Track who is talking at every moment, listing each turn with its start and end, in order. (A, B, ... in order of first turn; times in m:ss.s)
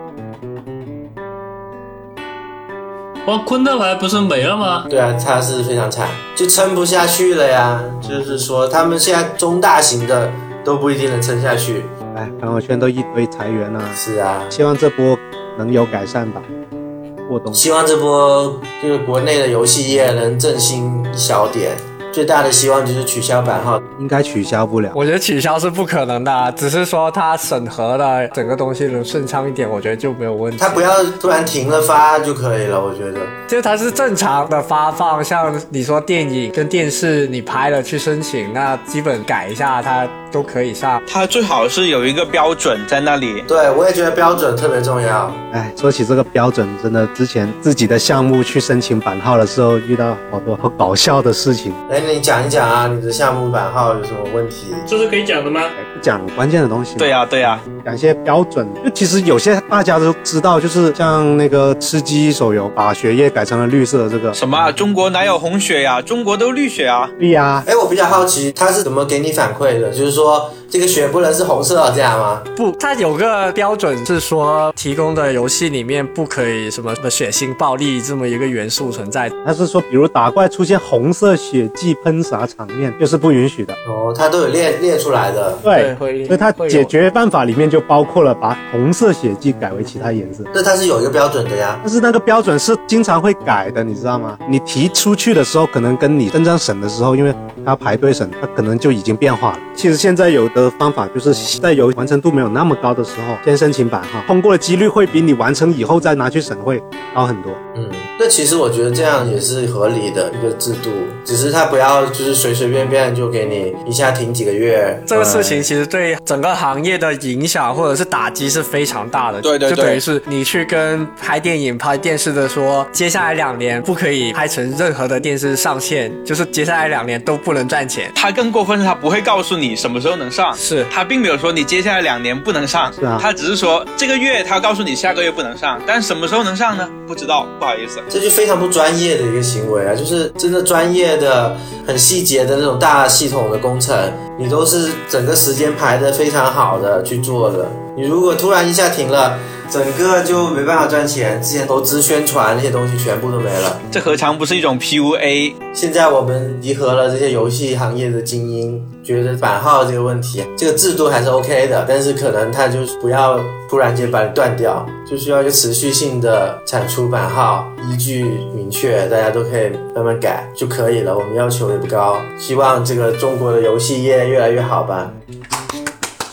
0:03.2-0:04.9 A
0:04.9-0:11.9 B
0:12.1-0:14.0 C
0:13.9-0:14.6 B
0:14.5-0:16.4 C
0:17.3-0:17.6 C
0:17.5-0:23.8 B
0:24.0-0:25.0 C
0:24.9-0:30.9 D
0:30.6-0:33.4 B
0:33.5-0:41.0 D
0:41.0-0:43.5 E
0:43.5-0:45.4 B
0:45.5-0:51.8 C
0:51.9-0:54.9 B
0:54.9-0:55.7 A
0:55.8-1:04.4 C
0:57.0-0:57.6 E
1:04.3-1:07.1 E
1:07.2-1:07.6 C
1:07.6-1:12.5 B
1:12.6-1:19.3 D
1:19.4-1:23.8 C
1:23.8-1:25.6 B
1:25.6-1:30.5 C
1:25.7-1:26.9 D
1:30.5-1:31.8 B
1:31.8-1:47.6 C
1:47.7-1:55.7 B
1:55.1-2:08.1 D
1:59.4-2:00.0 E
2:08.1-2:18.0 E
2:10.5-2:10.9 D
2:12.9-2:13.3 C
2:18.1-2:33.8 B
2:33.9-2:35.6 E
2:35.7-2:55.1 B